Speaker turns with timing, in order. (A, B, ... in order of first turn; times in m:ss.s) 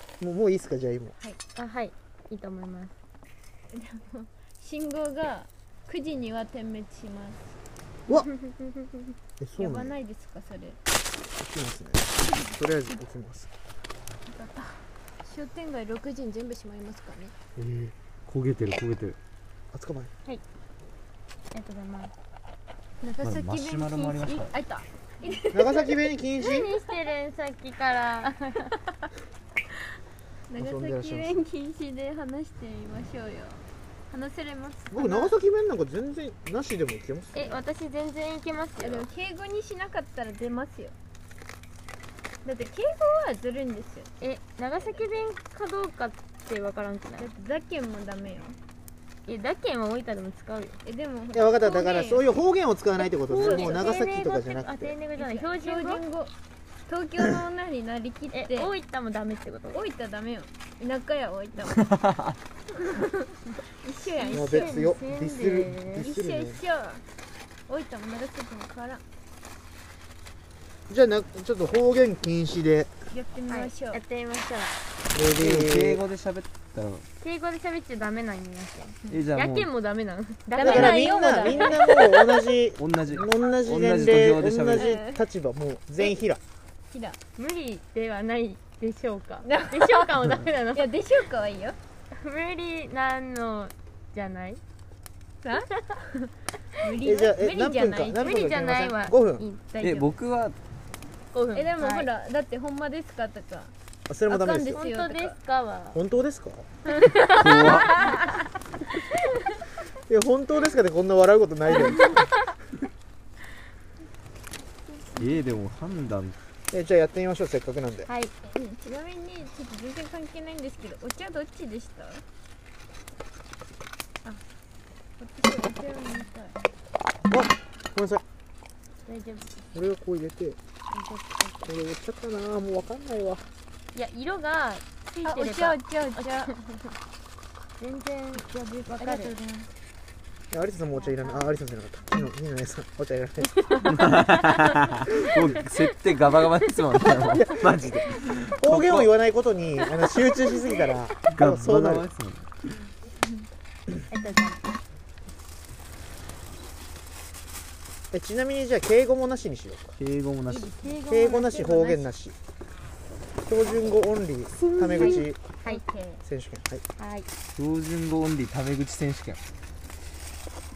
0:00.2-0:01.2 A
0:01.6-0:03.0 B
0:03.7-0:07.6 C
0:08.4-0:08.9 B
0:09.4-0:10.0 A
0:09.6-0:10.8 C
0:11.4-0:13.5 A
0:14.3-0:17.3 C
0:17.6-0:17.9 A
0:18.3-0:19.2 D
0:19.7-0:20.1 A
0:21.5-0:22.1 B
0:23.0-0:26.0 C
0:23.2-0:24.6 D
0:25.5-0:26.7 A
0:26.4-0:28.8 B
0:30.5-0:35.4 C
0:30.6-0:31.4 A
0:34.9-0:37.6 A
0:37.3-0:39.1 B
0:38.8-0:41.0 C
0:42.4-0:44.1 C
0:44.2-0:47.3 B
0:44.8-0:45.0 C
0:47.2-0:48.6 C
0:49.3-0:50.8 B
0:50.8-0:52.2 C
0:51.3-0:54.9 A
0:53.0-0:56.1 B
0:53.4-0:53.9 C
0:55.2-0:56.3 C
0:56.9-0:58.7 C
0:58.3-0:59.8 B
0:59.7-1:02.0 C
1:01.7-1:02.4 D
1:02.8-1:04.9 C
1:04.2-1:06.1 B
1:04.3-1:06.6 A
1:06.0-1:07.0 C
1:07.7-1:09.0 C
1:10.9-1:12.9 A
1:13.1-1:14.0 C
1:13.5-1:14.8 B
1:15.1-1:16.0 A
1:15.4-1:17.1 D
1:17.2-1:22.2 B
1:19.1-1:19.7 D
1:20.5-1:22.3 C
1:20.6-1:26.4 A
1:22.8-1:25.0 D
1:24.7-1:25.2 C
1:26.9-1:27.2 C
1:27.4-1:30.9 B
1:29.4-1:30.2 C
1:30.7-1:31.8 C
1:32.1-1:34.6 B
1:35.4-1:38.4 C
1:37.0-1:39.4 A
1:38.2-1:40.1 B
1:39.8-1:40.6 D
1:41.3-1:42.1 B
1:41.5-1:43.7 C
1:44.1-1:44.8 A
1:44.3-1:45.4 C
1:44.7-1:46.0 B
1:46.0-1:46.7 A
1:46.9-1:48.3 C
1:46.9-1:48.2 B
1:47.3-1:48.1 D
1:50.1-1:52.3 A
1:55.2-1:56.4 D
1:56.7-1:58.1 A
1:58.1-1:58.3 B
1:58.4-2:02.2 C
2:05.2-2:06.6 C
2:07.3-2:08.2 A
2:09.1-2:09.7 B
2:09.7-2:10.6 A
2:10.9-2:11.7 B
2:11.6-2:13.4 A
2:13.9-2:16.5 B
2:15.2-2:16.9 C
2:17.8-2:19.4 B
2:18.4-2:19.7 C
2:20.5-2:23.6 A
2:23.6-2:25.8 B
2:23.8-2:29.1 D
2:26.3-2:27.4 B
2:27.4-2:27.7 A
2:28.6-2:32.1 A
2:31.3-2:32.7 D
2:34.1-2:34.6 B
2:38.1-2:40.0 A
2:40.0-2:40.8 D
2:40.5-2:42.1 B
2:41.1-2:42.4 A
2:43.4-2:45.4 A
2:44.6-2:45.2 D
2:45.0-2:45.8 B
2:45.7-2:46.2 C
2:46.2-2:46.8 A
2:47.0-2:47.3 B
2:47.5-2:49.4 D